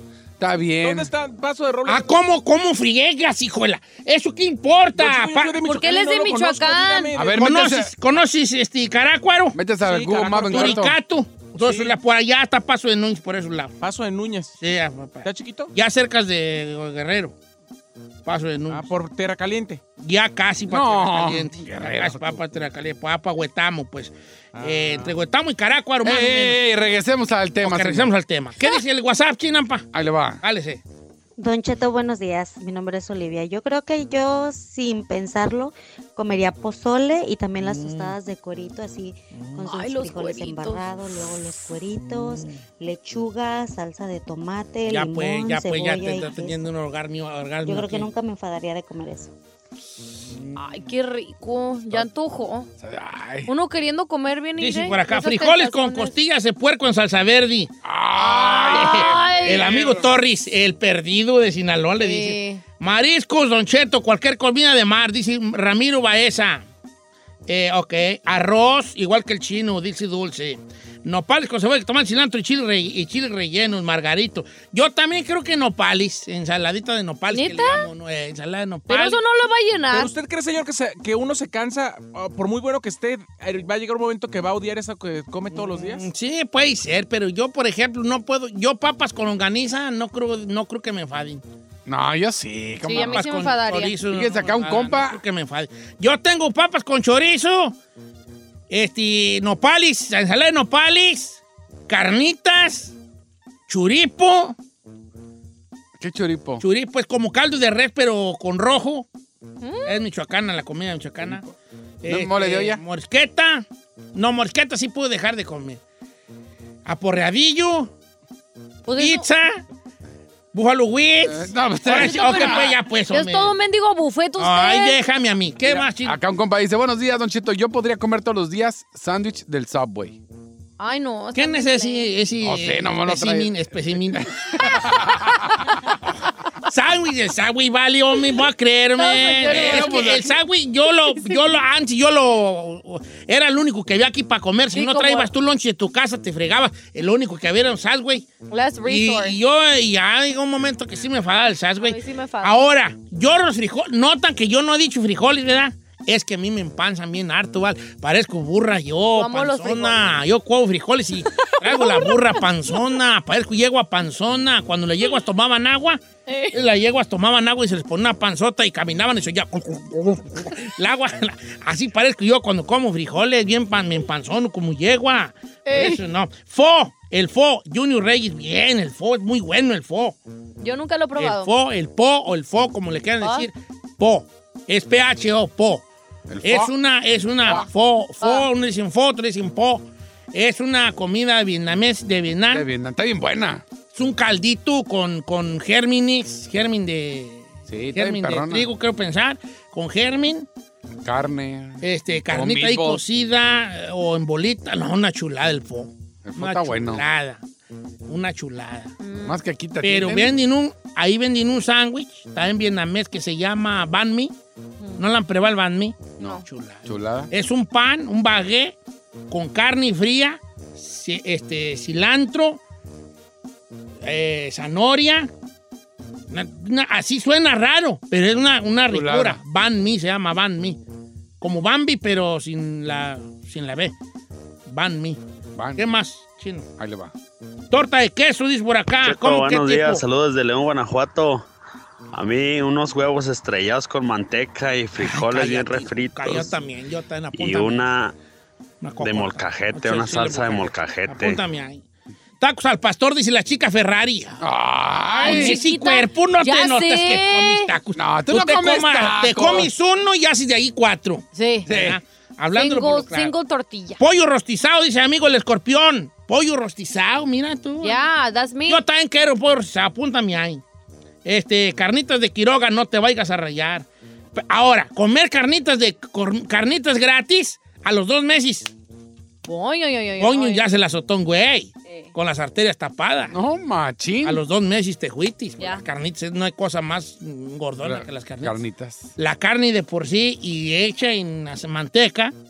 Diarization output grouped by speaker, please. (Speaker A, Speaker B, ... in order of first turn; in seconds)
Speaker A: 0.4-1.1, 7.1-7.9, 9.5-11.0, 20.7-22.6, 26.0-28.1, 29.9-30.4, 52.8-53.5, 57.8-60.1, 91.8-93.3, 94.1-95.2, 106.0-106.6, 111.2-111.5, 112.0-112.8, 121.2-122.7, 125.7-130.2, 132.4-135.7, 139.4-140.3, 186.3-186.7, 187.4-187.7, 192.5-193.6, 197.7-198.7, 201.0-203.0, 206.2-207.0, 209.2-210.4, 216.2-217.3, 228.9-229.4, 235.6-235.9, 236.8-237.1, 254.4-255.6, 257.9-259.7, 261.7-262.0, 283.3-284.4, 287.8-289.1
Speaker B: 0.8-2.1, 5.0-7.4, 9.8-10.9, 11.6-11.9, 13.8-14.6, 15.2-15.7, 18.7-19.8, 24.6-25.1, 79.9-86.1
Speaker C: 1.9-5.6, 7.3-9.6, 10.5-13.7, 14.6-17.3, 18.2-18.9, 20.0-26.6, 27.6-29.9, 30.4-30.8, 37.6-38.1, 42.0-42.6, 44.9-48.1, 50.3-50.6, 54.6-57.7, 58.7-66.6, 67.5-79.2, 85.5-91.4, 92.9-97.7, 98.7-102.9, 103.7-104.6, 106.6-109.1, 109.8-111.4, 112.0-115.8, 116.8-117.9, 119.0-119.6, 120.5-123.5, 124.4-126.2, 131.3-134.8, 136.6-148.3, 148.8-166.0, 166.5-180.2, 181.2-185.8, 186.4-192.7, 193.9-200.5, 201.8-207.4, 208.1-208.9, 209.8-214.3, 215.0-218.8, 219.3-222.6, 224.0-225.3, 226.3-230.8, 231.4-233.9, 234.7-235.2, 235.8-236.7, 237.7-240.0, 245.0-247.9, 248.8-251.8, 252.4-254.4, 255.2-263.3, 264.0-268.1, 268.7-270.6, 271.2-278.7, 280.2-283.3, 284.2-288.6, 289.2-292.3
Speaker D: 5.6-7.1, 39.6-41.7, 50.5-52.7, 53.5-56.2, 58.1-60.1, 62.0-62.6, 77.3-77.9, 78.9-80.1, 92.8-94.0, 109.6-110.0, 118.9-119.2, 122.0-125.0, 130.8-132.1, 139.0-140.3, 144.7-145.3, 148.5-149.4, 151.8-152.6, 159.2-160.1, 161.8-162.2, 166.3-166.6, 175.7-176.0, 180.6-181.5, 183.2-183.5, 188.2-188.5, 209.0-209.3, 255.2-257.7, 261.3-261.7, 262.5-264.0, 267.8-268.8, 279.4-280.6
Speaker E: 31.4-46.6, 47.6-49.3
Speaker F: 239.0-241.4, 242.1-246.6, 247.3-248.1, 249.0-251.4